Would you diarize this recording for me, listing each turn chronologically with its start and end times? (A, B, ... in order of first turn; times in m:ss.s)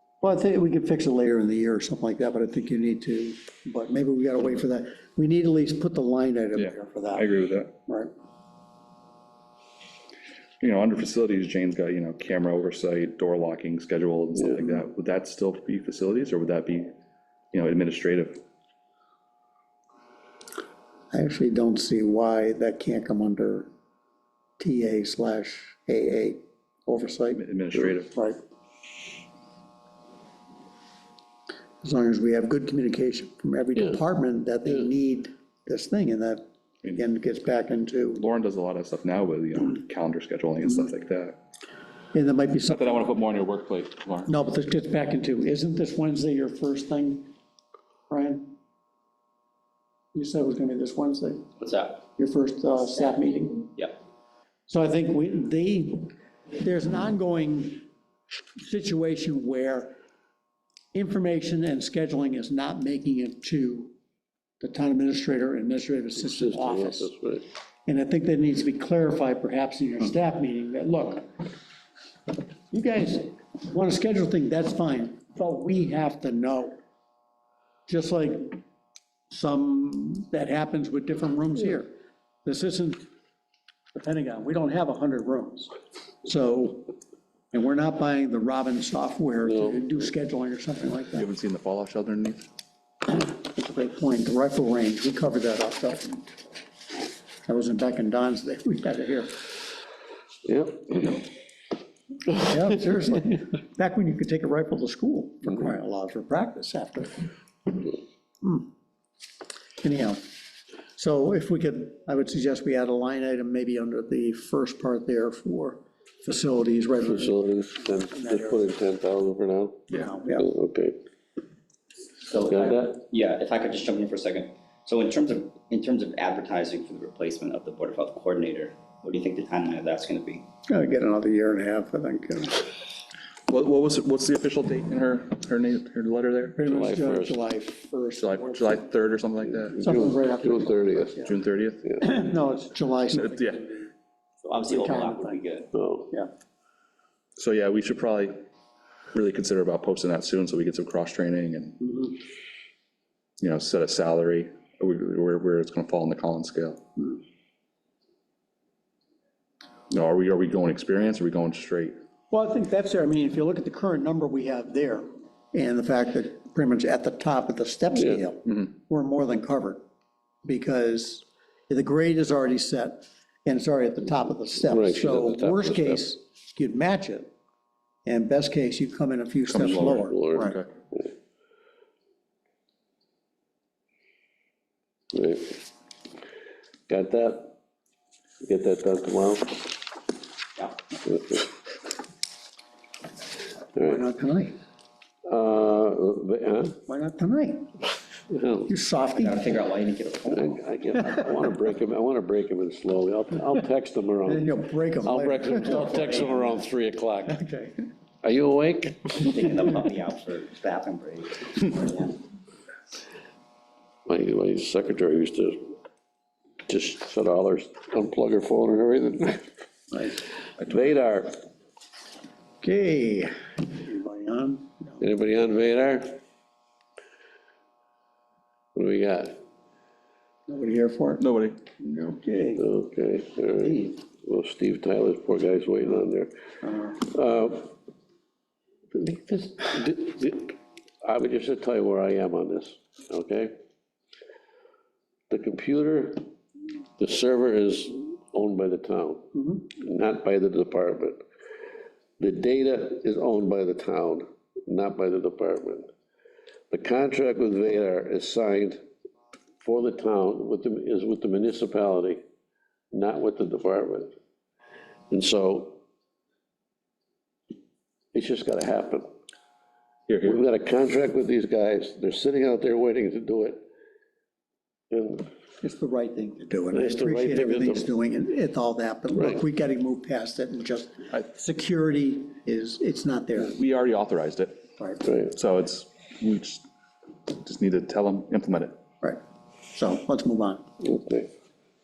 0:00.2-0:07.3 A
0:06.6-0:07.7 B
0:07.9-0:08.1 A
0:10.6-0:16.9 B
0:17.5-0:18.4 B
0:21.1-0:23.7 A
0:24.6-0:27.4 A
0:27.3-0:28.1 B
0:28.1-0:28.4 A
0:31.8-0:36.4 A
0:37.0-0:38.2 A
0:38.2-0:41.4 B
0:42.1-0:43.0 A
0:42.7-0:44.3 B
0:44.3-0:47.3 A
0:48.1-0:48.6 A
0:50.1-0:51.5 A
0:51.6-0:52.0 C
0:52.2-0:53.7 A
0:54.7-0:57.8 A
0:58.6-0:59.9 A
1:00.9-1:03.9 A
1:04.6-1:07.1 A
1:06.2-1:07.5 D
1:07.9-1:11.3 A
1:12.7-1:16.8 A
1:17.9-1:18.6 A
1:19.3-1:21.9 A
1:22.4-1:23.1 A
1:23.9-1:25.7 A
1:26.2-1:26.9 A
1:27.5-1:31.3 A
1:29.4-1:30.0 D
1:31.2-1:32.5 B
1:33.1-1:36.3 A
1:37.5-1:39.5 A
1:40.5-1:41.2 D
1:42.3-1:47.3 A
1:48.4-1:48.7 A
1:49.8-1:50.2 A
1:50.9-1:57.4 A
1:57.0-2:01.0 D
1:58.1-1:58.6 A
1:59.9-2:00.5 A
2:02.2-2:10.5 C
2:02.5-2:02.9 D
2:10.7-2:12.7 A
2:13.5-2:16.6 B
2:16.6-2:18.8 A
2:16.7-2:17.4 D
2:18.2-2:19.8 B
2:19.8-2:21.3 D
2:19.8-2:21.3 A
2:21.2-2:21.8 B
2:22.0-2:23.9 A
2:23.1-2:23.6 B
2:24.4-2:25.7 C
2:24.7-2:25.4 A
2:25.7-2:26.1 D
2:27.4-2:28.4 B
2:29.1-2:32.0 B
2:33.4-2:36.8 B
2:39.9-2:42.0 B
2:42.3-2:49.8 A
2:50.4-2:57.3 A
2:54.7-2:56.1 D
2:58.0-3:00.6 A
2:59.5-3:00.7 B
2:59.6-3:01.0 D
3:05.1-3:05.6 D
3:06.9-3:07.6 D
3:08.4-3:09.7 D
3:11.1-3:11.5 D
3:13.8-3:14.0 D
3:13.8-3:14.6 A
3:15.3-3:16.8 D
3:16.9-3:17.7 A
3:18.3-3:18.7 D
3:18.7-3:19.5 A
3:19.2-3:21.4 C
3:20.3-3:27.4 D
3:24.2-3:26.3 A
3:25.6-3:26.6 C
3:27.3-3:27.9 A
3:28.2-3:29.2 D
3:29.1-3:32.2 C
3:34.1-3:35.8 D
3:36.7-3:39.5 D
3:40.6-3:41.4 D
3:42.6-3:45.0 A
3:45.0-3:46.2 D
3:48.7-3:49.4 D
3:50.5-3:51.2 A
3:51.2-3:51.7 B
3:51.8-3:52.6 A
3:52.6-3:56.3 D
3:53.6-3:53.9 A
3:56.6-3:57.0 A
3:56.9-3:57.7 D
3:58.9-4:03.5 D
4:05.3-4:06.3 D
4:07.0-4:11.2 D
4:12.2-4:15.9 D
4:16.7-4:18.8 D
4:19.6-4:22.2 D
4:22.9-4:24.1 D
4:25.1-4:25.8 D
4:28.1-4:29.1 D
4:30.1-4:30.4 B
4:30.2-4:33.6 D
4:34.9-4:35.3 D
4:35.6-4:43.6 A
4:36.7-4:37.9 D
4:39.1-4:39.4 D
4:43.4-4:44.6 B
4:45.2-4:46.6 B
4:47.3-4:48.8 B
4:49.7-4:50.6 A
4:50.8-4:51.3 D